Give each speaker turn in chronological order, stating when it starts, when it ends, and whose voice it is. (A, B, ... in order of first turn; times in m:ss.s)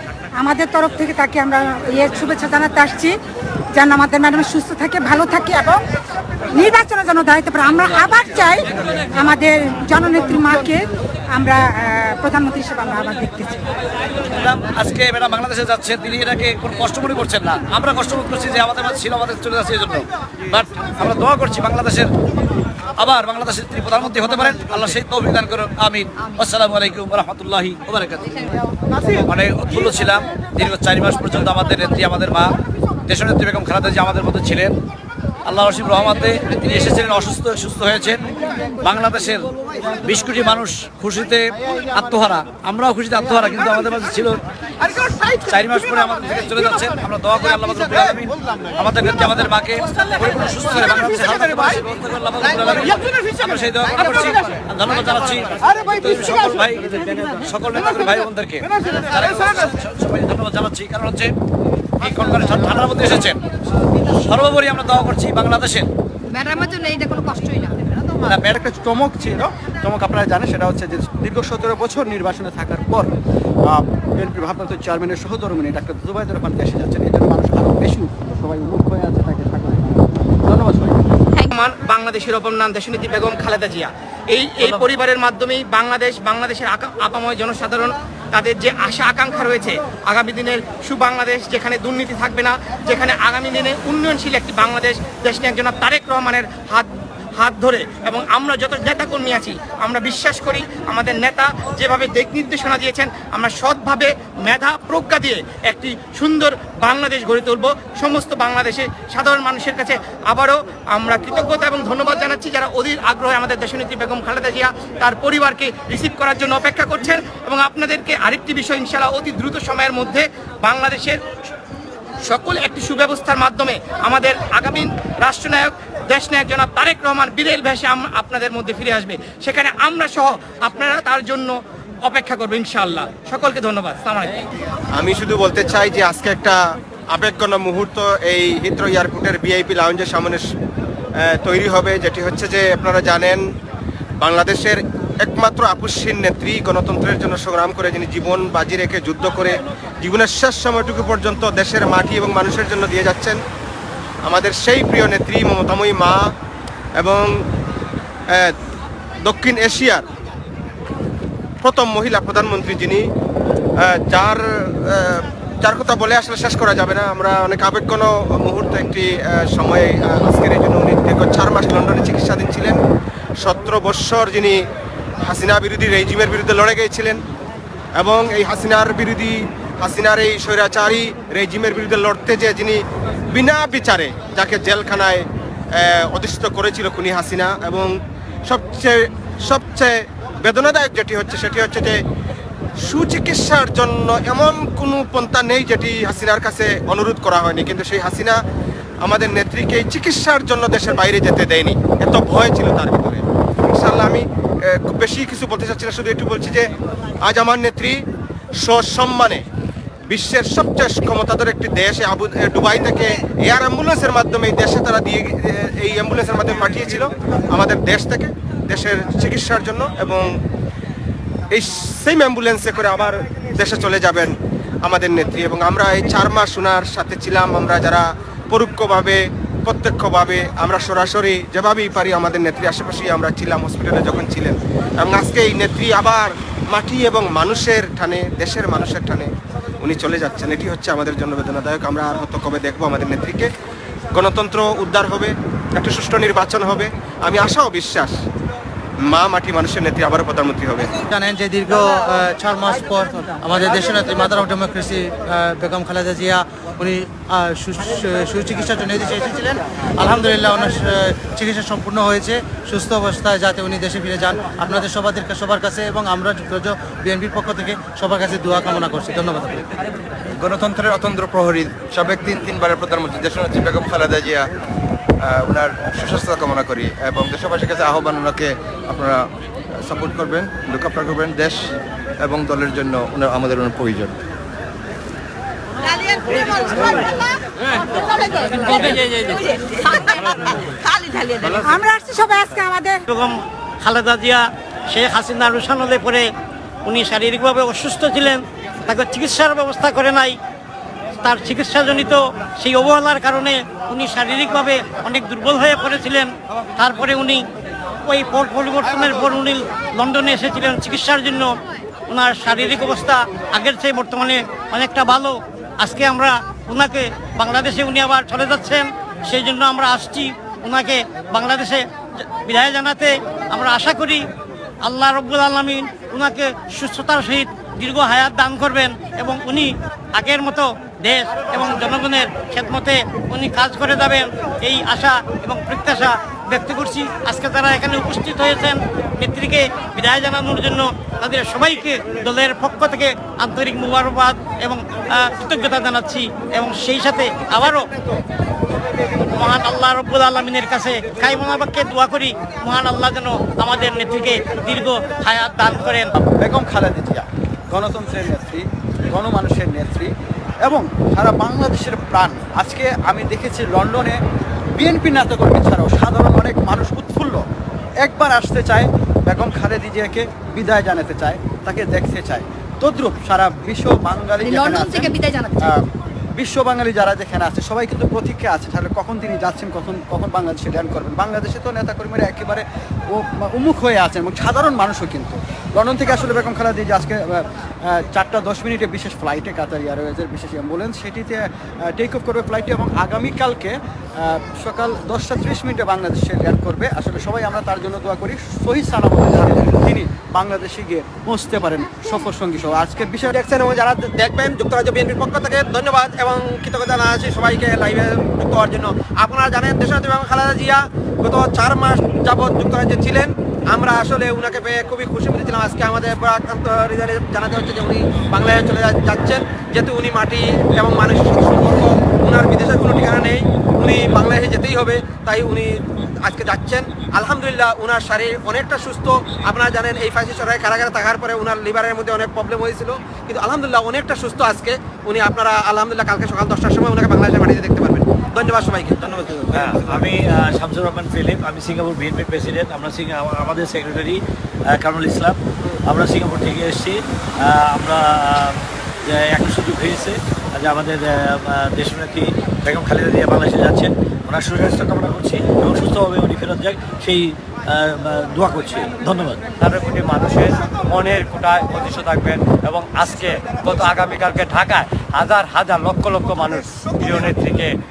0:00.3-0:03.2 A
0:03.8-0:05.8 A
0:06.5-0:13.6 A
0:14.2-0:22.1 B
0:23.0-0:28.5 B
0:29.1-0:32.5 B
0:33.1-0:34.8 B
0:35.4-0:38.2 B
0:38.8-0:39.5 B
0:40.0-0:44.4 B
0:45.3-1:01.3 B
1:02.0-1:03.4 B
1:04.1-1:05.9 B
1:06.3-1:07.8 C
1:08.3-1:08.6 B
1:08.3-1:13.1 D
1:13.7-1:21.0 D
1:21.5-2:01.2 E
2:02.2-2:14.4 E
2:15.0-2:16.6 F
2:17.1-2:20.4 F
2:21.2-2:23.4 F
2:24.2-2:33.4 F
2:34.2-2:36.3 F
2:37.0-2:37.3 F
2:39.2-2:40.0 F
2:41.6-2:43.0 F
2:43.8-2:52.8 F
2:53.4-2:54.6 F
2:55.2-2:57.2 F
2:58.0-3:02.8 F
3:03.3-3:05.2 F
3:05.8-3:07.9 F
3:08.5-3:12.0 F
3:12.8-3:18.4 F
3:19.0-3:26.7 F
3:27.2-3:28.0 F
3:28.6-3:29.4 F
3:30.1-3:40.3 F
3:41.5-3:59.3 F
3:59.8-4:03.5 F
4:04.1-4:08.2 F
4:09.1-4:10.9 F
4:11.1-4:29.6 G
4:30.4-4:34.5 H
4:35.3-4:39.2 H
4:39.8-4:41.7 H
4:42.2-4:44.1 H
4:46.8-4:47.0 C
4:48.3-4:50.2 C
4:50.8-4:51.4 C
4:51.5-4:53.0 A
4:53.1-4:56.3 I
4:56.8-5:00.4 I
5:01.2-5:07.4 I
5:08.0-5:11.5 I
5:12.1-5:21.8 I
5:22.4-5:24.2 I
5:24.8-5:47.9 I
5:49.3-5:56.1 I
5:56.4-6:00.1 D
6:00.6-6:04.2 D
6:04.8-6:07.4 D
6:08.0-6:27.4 D
6:14.4-6:15.7 C
6:28.0-6:33.7 D
6:34.2-6:43.3 D
6:43.4-7:05.7 J
7:06.2-7:19.4 J
7:19.5-7:39.4 B
7:39.6-7:47.8 K